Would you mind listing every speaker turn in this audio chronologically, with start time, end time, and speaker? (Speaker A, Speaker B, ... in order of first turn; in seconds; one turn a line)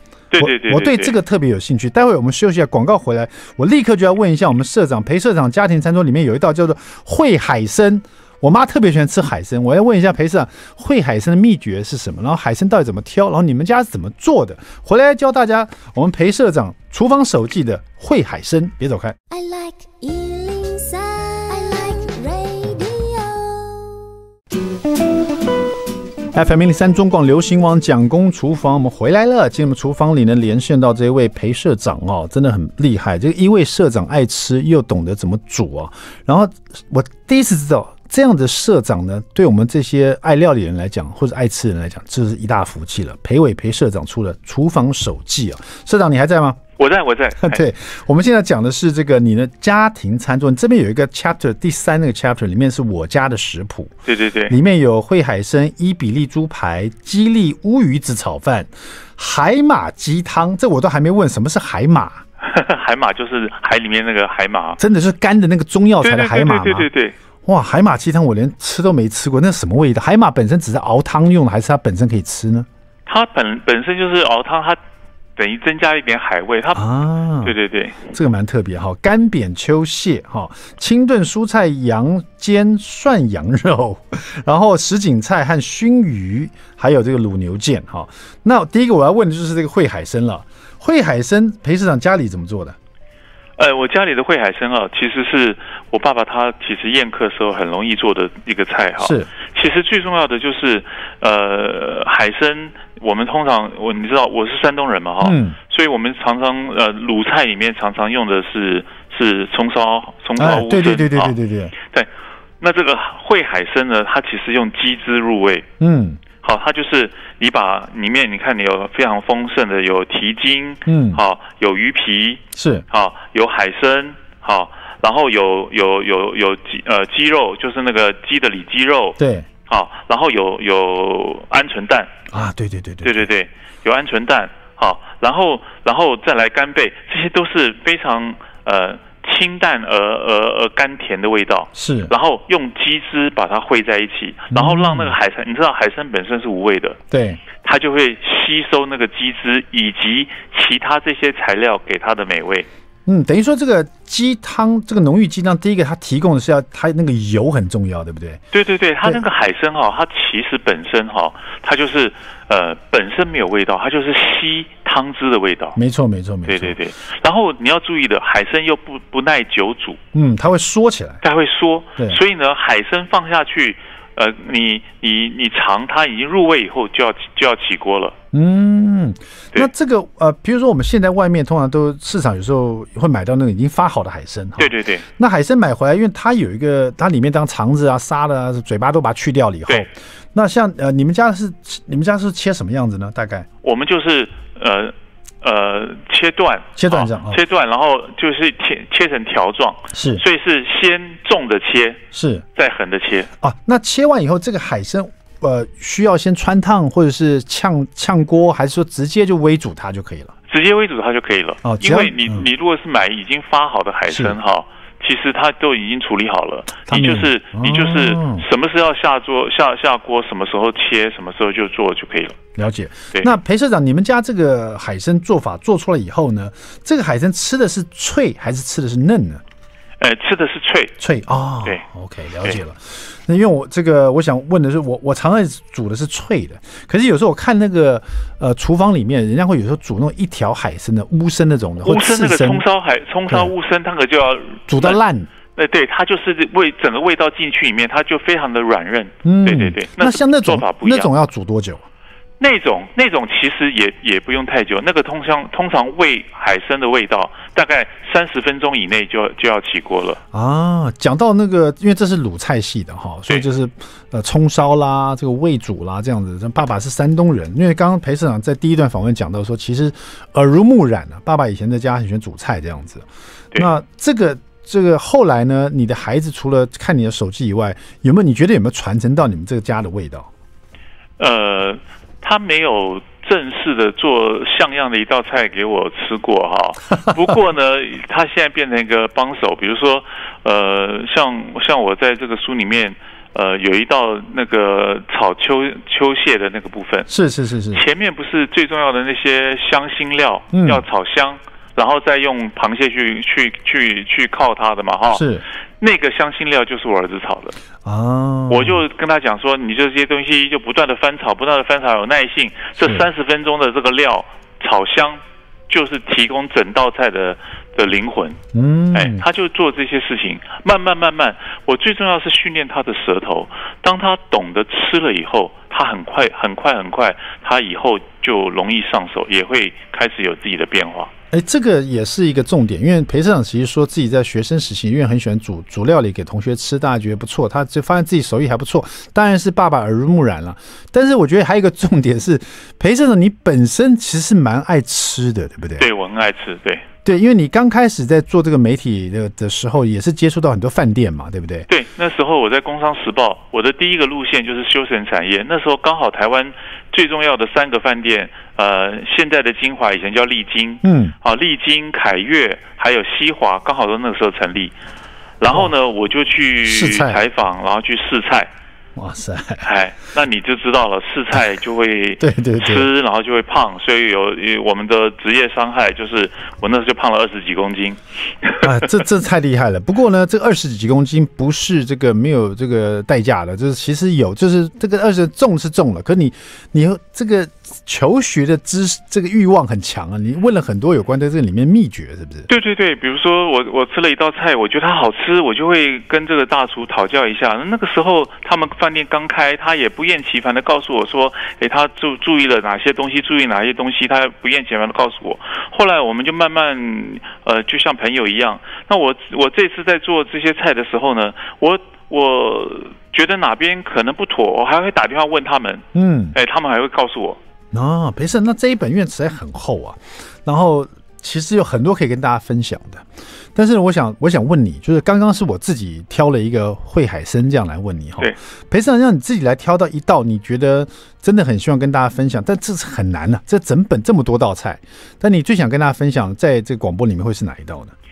Speaker A: 0.3-1.1
Speaker B: 0.4-19.2
Speaker C: 19.3-24.1
Speaker B: 26.3-46.6
Speaker A: 46.8-47.6
Speaker B: 47.4-53.9
Speaker A: 54.1-54.5
Speaker B: 54.5-62.2
Speaker A: 62.4-64.8
Speaker B: 64.8-66.9
Speaker A: 66.0-67.2
Speaker B: 67.5-72.7
Speaker A: 73.1-74.8
Speaker A: 75.4-76.8
Speaker B: 76.8-77.5
Speaker A: 77.4-78.0
Speaker B: 78.1-92.8
Speaker A: 93.6-112.1
Speaker B: 99.0-99.3
Speaker B: 105.2-105.6
Speaker B: 110.4-111.7
Speaker A: 112.6-115.7
Speaker B: 115.8-116.2
Speaker A: 116.4-132.1
Speaker B: 120.9-121.2
Speaker B: 122.6-122.8
Speaker B: 129.2-129.5
Speaker B: 132.3-133.3
Speaker A: 133.0-147.0
Speaker B: 141.8-142.1
Speaker B: 144.5-145.2
Speaker B: 147.1-147.4
Speaker A: 147.6-152.7
Speaker B: 153.1-158.4
Speaker A: 158.5-165.8
Speaker B: 165.8-166.8
Speaker A: 166.5-170.0
Speaker B: 170.1-171.2
Speaker A: 171.2-178.2
Speaker B: 178.3-193.5
Speaker A: 184.6-185.0
Speaker A: 193.6-202.0
Speaker B: 196.8-197.4
Speaker B: 199.9-200.2
Speaker B: 202.1-202.4
Speaker A: 202.6-203.3
Speaker B: 203.4-210.3
Speaker A: 210.5-222.4
Speaker B: 211.6-212.5
Speaker B: 214.1-214.4
Speaker B: 216.9-218.4
Speaker B: 222.6-229.4
Speaker A: 230.0-231.0
Speaker B: 231.0-242.6
Speaker A: 241.8-245.0
Speaker B: 244.7-245.3
Speaker A: 245.6-251.1
Speaker B: 249.2-251.8
Speaker A: 252.4-260.2
Speaker B: 260.3-280.3
Speaker A: 281.2-297.1
Speaker B: 297.1-297.8
Speaker A: 297.7-305.3
Speaker B: 300.5-300.8
Speaker B: 305.1-305.4
Speaker A: 305.8-307.6
Speaker B: 307.9-308.8
Speaker A: 308.5-318.4
Speaker B: 312.8-313.1
Speaker B: 318.5-319.2
Speaker A: 318.9-331.1
Speaker B: 331.3-345.9
Speaker A: 345.8-346.9
Speaker B: 347.1-351.7
Speaker A: 351.7-364.7
Speaker B: 360.8-361.1
Speaker A: 365.4-368.5
Speaker B: 366.7-367.2
Speaker B: 369.0-369.7
Speaker A: 369.6-378.9
Speaker B: 372.2-372.9
Speaker B: 378.6-392.5
Speaker A: 392.5-417.4
Speaker B: 415.9-416.4
Speaker B: 417.7-437.9